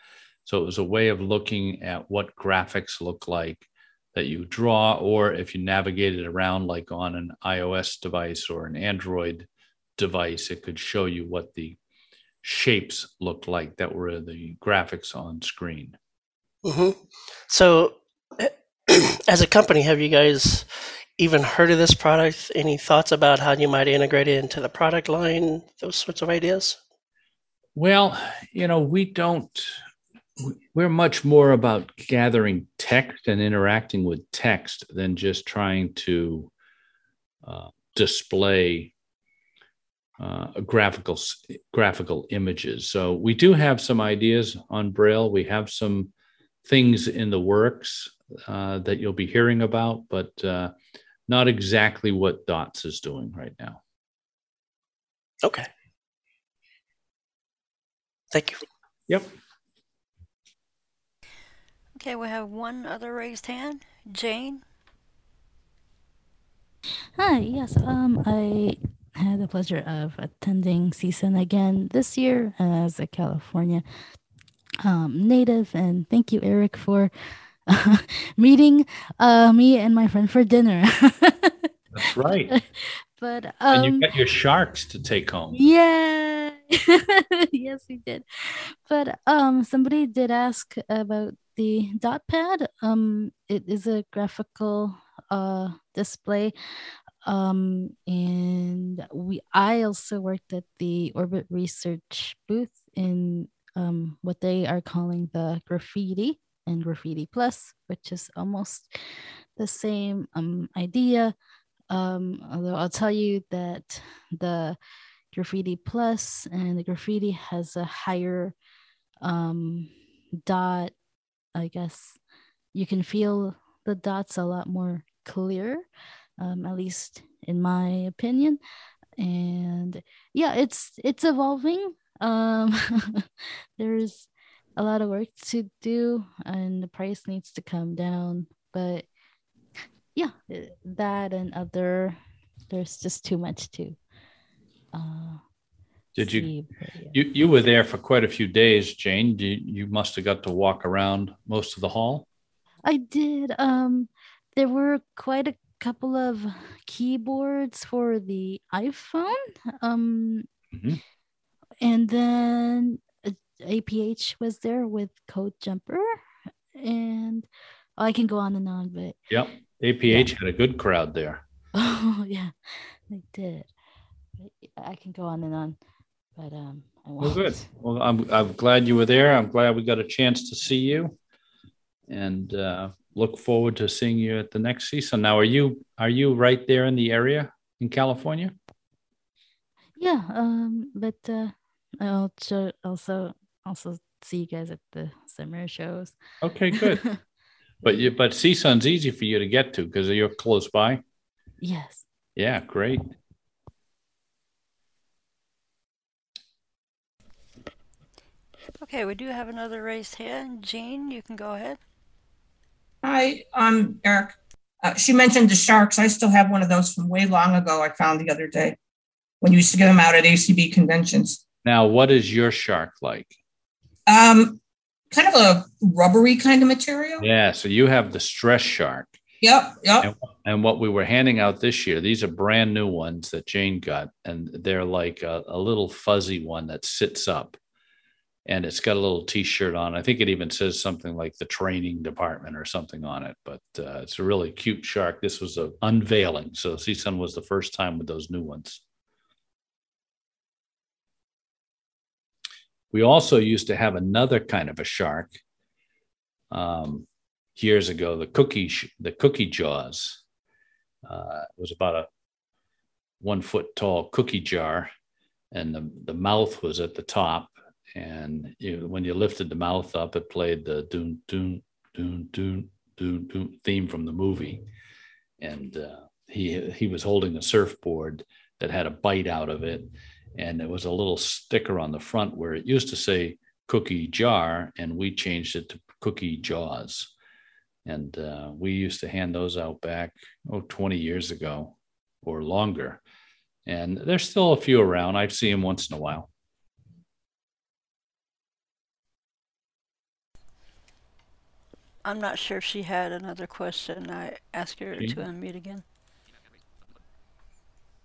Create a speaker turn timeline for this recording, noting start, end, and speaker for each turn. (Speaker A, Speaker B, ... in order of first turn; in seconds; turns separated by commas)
Speaker A: 0.5-11.8, Speaker A: 12.4-16.0, Speaker B: 16.6-26.8, Speaker A: 27.8-29.7, Speaker A: 30.4-36.5, Speaker A: 37.5-38.9, Speaker A: 40.2-46.1, Speaker A: 46.6-50.7, Speaker A: 51.3-53.8, Speaker B: 58.3-58.6, Speaker C: 62.0-64.6, Speaker D: 67.2-73.8, Speaker D: 74.8-77.1, Speaker D: 77.7-81.7, Speaker A: 81.9-82.5, Speaker D: 82.5-84.1, Speaker A: 83.7-85.6, Speaker D: 85.5-96.5, Speaker D: 97.2-109.0, Speaker D: 109.6-111.3, Speaker D: 111.9-114.8, Speaker D: 115.3-118.5, Speaker D: 119.2-120.9, Speaker D: 121.5-122.2, Speaker D: 122.7-125.8, Speaker D: 126.4-128.6, Speaker D: 129.2-139.1, Speaker D: 140.2-142.2, Speaker D: 142.7-144.0, Speaker D: 144.9-145.4, Speaker A: 146.2-146.5, Speaker D: 146.2-147.2, Speaker A: 147.1-152.3, Speaker D: 152.8-160.5, Speaker A: 160.7-161.0, Speaker D: 161.8-166.2, Speaker D: 166.8-169.2, Speaker A: 169.3-171.4, Speaker D: 171.8-172.5, Speaker D: 173.1-173.7, Speaker D: 174.4-175.8, Speaker D: 176.4-177.6, Speaker A: 177.2-181.2, Speaker A: 182.1-188.5, Speaker D: 190.0-196.2, Speaker A: 196.4-197.1, Speaker D: 196.8-197.2, Speaker A: 197.8-201.0, Speaker D: 201.6-202.0, Speaker A: 202.4-203.0, Speaker C: 208.8-211.8, Speaker E: 213.0-218.8, Speaker E: 219.4-221.4, Speaker A: 221.6-223.3, Speaker E: 224.1-224.6, Speaker E: 225.1-227.2, Speaker A: 227.2-229.1, Speaker E: 229.4-230.1, Speaker A: 230.0-237.6, Speaker A: 238.5-248.8, Speaker A: 252.9-255.4, Speaker A: 256.5-260.2, Speaker A: 261.1-262.1, Speaker A: 263.2-264.9, Speaker A: 265.5-274.6, Speaker A: 275.4-287.1, Speaker A: 287.9-293.0, Speaker A: 293.7-296.3, Speaker C: 302.1-305.8